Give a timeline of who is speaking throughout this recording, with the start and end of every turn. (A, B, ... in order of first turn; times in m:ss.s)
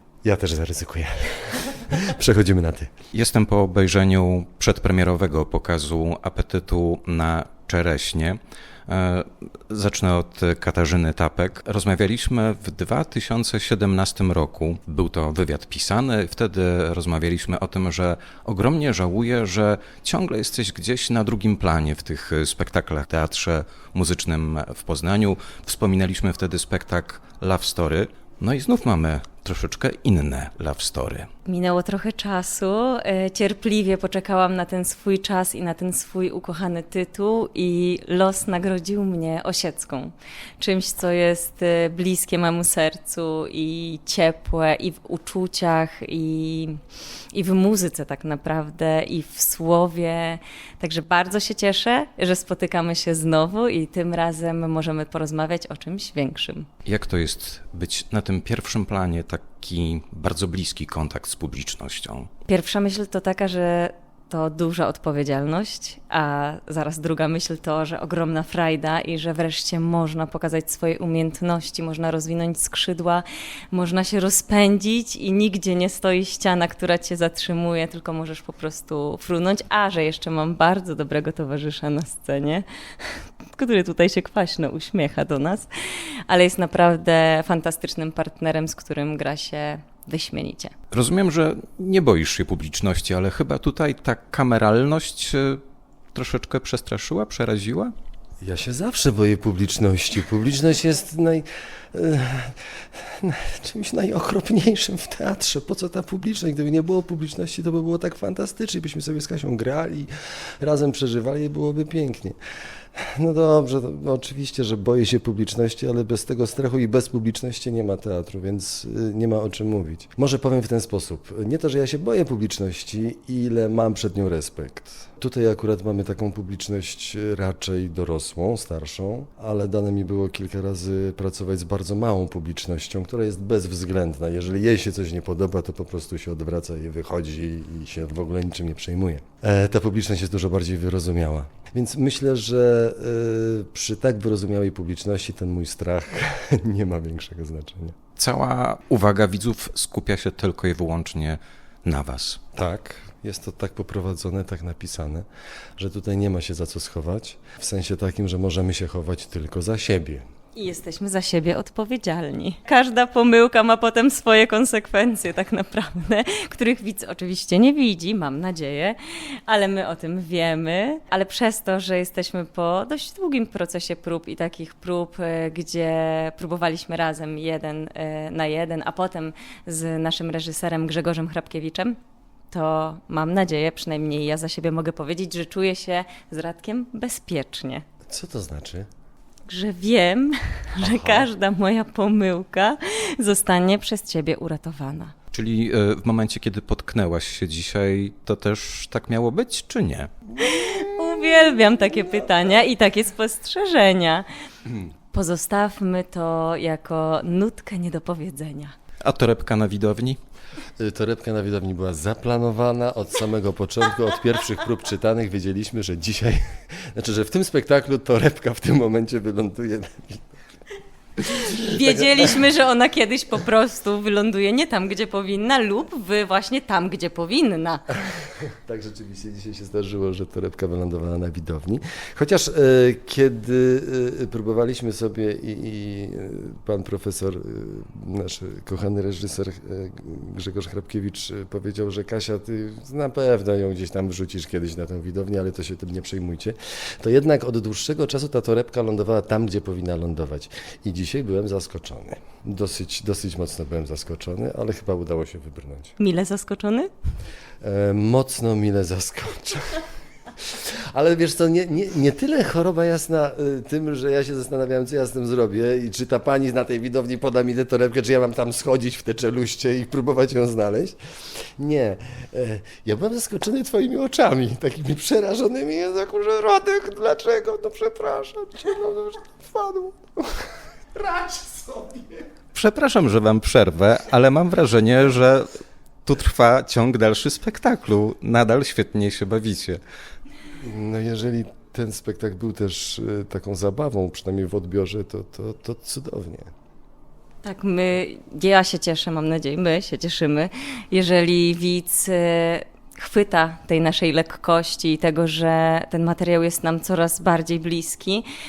0:00.2-0:02.9 A
0:03.1-0:31.3 B
0:31.5-0:46.8 C
0:47.3-0:56.7 C
0:56.8-1:02.3 B
1:02.5-1:25.7 C
1:26.3-1:30.7 C
1:30.9-1:35.6 B
1:36.1-1:37.9 B
1:38.4-1:52.4 A
1:53.0-2:28.0 A
2:28.2-2:32.4 B
2:32.6-2:35.3 A
2:35.8-2:40.3 A
2:40.6-3:02.0 C
3:02.5-3:07.8 C
3:08.1-3:08.9 A
3:09.5-3:15.1 C
3:10.9-3:11.3 A
3:15.3-3:20.1 B
3:20.4-3:24.3 C
3:20.5-3:20.9 A
3:25.1-3:28.8 C
3:29.0-3:30.2 B
3:30.8-3:40.2 A
3:41.2-3:48.0 C
3:41.3-3:42.4 A
3:48.4-4:16.0 A
4:16.0-4:16.9 C
4:17.6-4:19.9 A
4:20.4-4:42.3 A
4:42.5-4:45.5 B
4:46.1-4:49.8 B
4:50.6-4:56.5 A
4:57.4-5:08.3 C